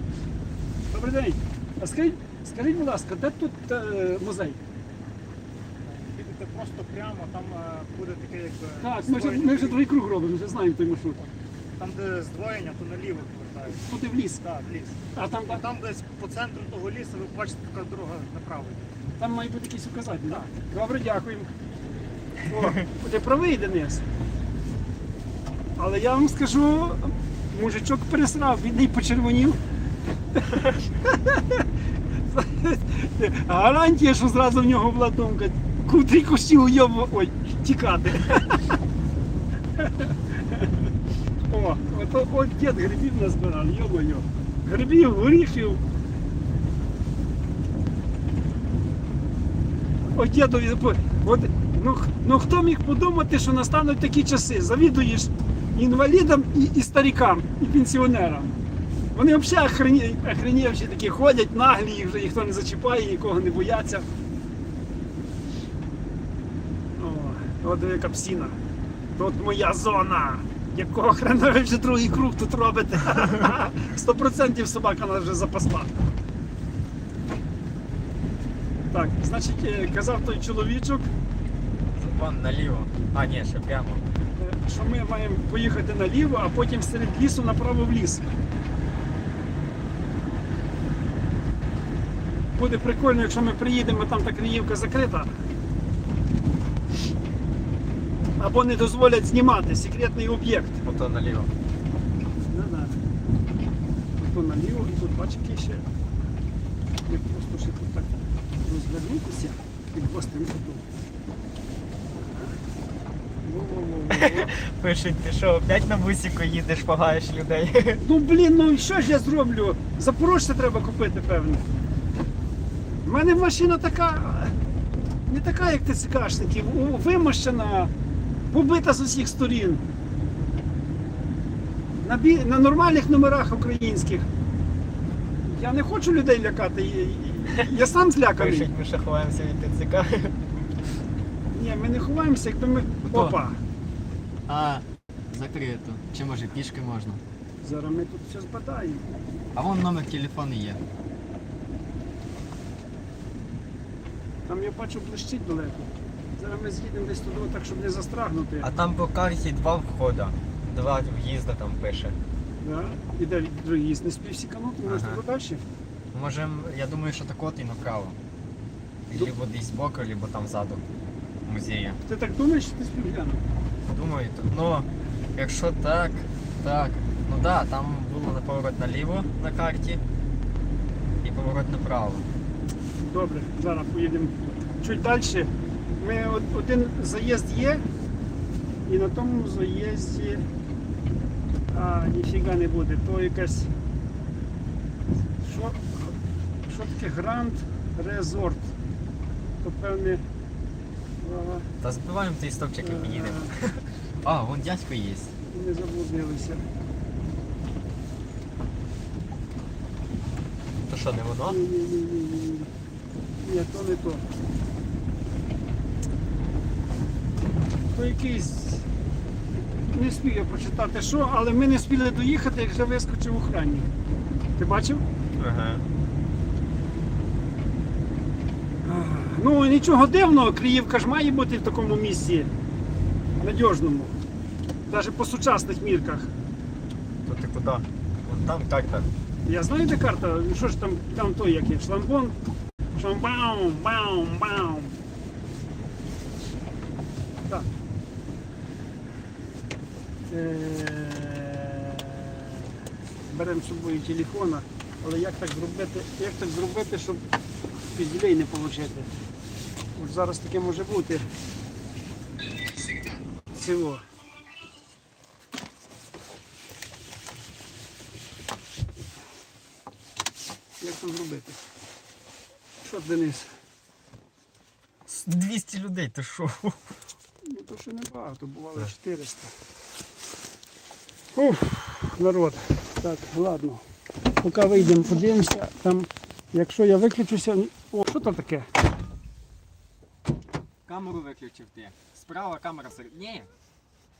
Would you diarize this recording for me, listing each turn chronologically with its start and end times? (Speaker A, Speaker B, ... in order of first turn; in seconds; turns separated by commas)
Speaker A: 0.9-4.6, Speaker B: 5.8-9.8, Speaker A: 8.8-11.2, Speaker B: 11.8-13.9, Speaker A: 13.7-14.4, Speaker B: 14.4-18.8, Speaker A: 15.1-15.6, Speaker A: 19.2-21.5, Speaker A: 22.5-24.1, Speaker A: 25.8-29.6, Speaker A: 30.3-31.6, Speaker A: 32.2-38.8, Speaker A: 39.8-40.7, Speaker A: 41.5-45.8, Speaker A: 50.1-58.6, Speaker A: 59.1-64.1, Speaker A: 67.0-68.6, Speaker A: 69.2-76.0, Speaker A: 78.9-81.0, Speaker C: 82.0-84.0, Speaker A: 84.4-88.3, Speaker A: 92.5-95.3, Speaker A: 98.4-100.8, Speaker C: 100.8-101.5, Speaker A: 102.5-103.0, Speaker A: 104.2-105.8, Speaker A: 107.1-110.8, Speaker A: 113.4-114.5, Speaker C: 114.1-118.0, Speaker A: 118.0-121.6, Speaker A: 123.0-124.5, Speaker A: 125.3-127.9, Speaker A: 128.5-129.8, Speaker A: 132.0-134.3, Speaker A: 135.4-138.7, Speaker C: 138.4-140.4, Speaker A: 141.5-143.6, Speaker C: 143.1-143.4, Speaker C: 144.5-147.2, Speaker A: 147.6-149.0, Speaker C: 149.5-150.8, Speaker A: 154.5-158.7, Speaker C: 158.6-162.2, Speaker A: 162.6-165.6, Speaker C: 164.8-165.2, Speaker C: 166.1-168.2, Speaker C: 169.1-170.8, Speaker C: 171.4-172.0, Speaker A: 172.1-173.4, Speaker C: 173.9-180.0, Speaker C: 181.2-182.3, Speaker A: 183.0-187.8, Speaker A: 188.8-190.5, Speaker A: 191.7-193.7, Speaker A: 195.4-196.1, Speaker A: 196.7-198.7, Speaker A: 199.6-200.2, Speaker A: 201.2-201.7, Speaker C: 201.8-205.3, Speaker A: 202.8-203.5, Speaker A: 205.5-206.6, Speaker C: 210.8-211.6, Speaker A: 211.4-212.7, Speaker A: 213.4-214.3, Speaker A: 217.9-218.8, Speaker A: 219.9-223.9, Speaker A: 224.6-225.0, Speaker C: 225.4-225.8, Speaker A: 228.8-232.5, Speaker A: 233.4-234.2, Speaker A: 234.9-236.3, Speaker C: 237.2-239.1, Speaker A: 239.4-242.3, Speaker A: 242.9-245.0, Speaker A: 250.3-252.7, Speaker A: 253.3-257.2, Speaker A: 257.9-259.1, Speaker A: 259.9-261.2, Speaker A: 263.5-264.0, Speaker A: 270.8-271.6, Speaker A: 272.8-273.5, Speaker C: 275.1-276.9, Speaker A: 277.4-279.5, Speaker A: 281.3-283.8, Speaker A: 284.4-288.7, Speaker C: 290.9-293.5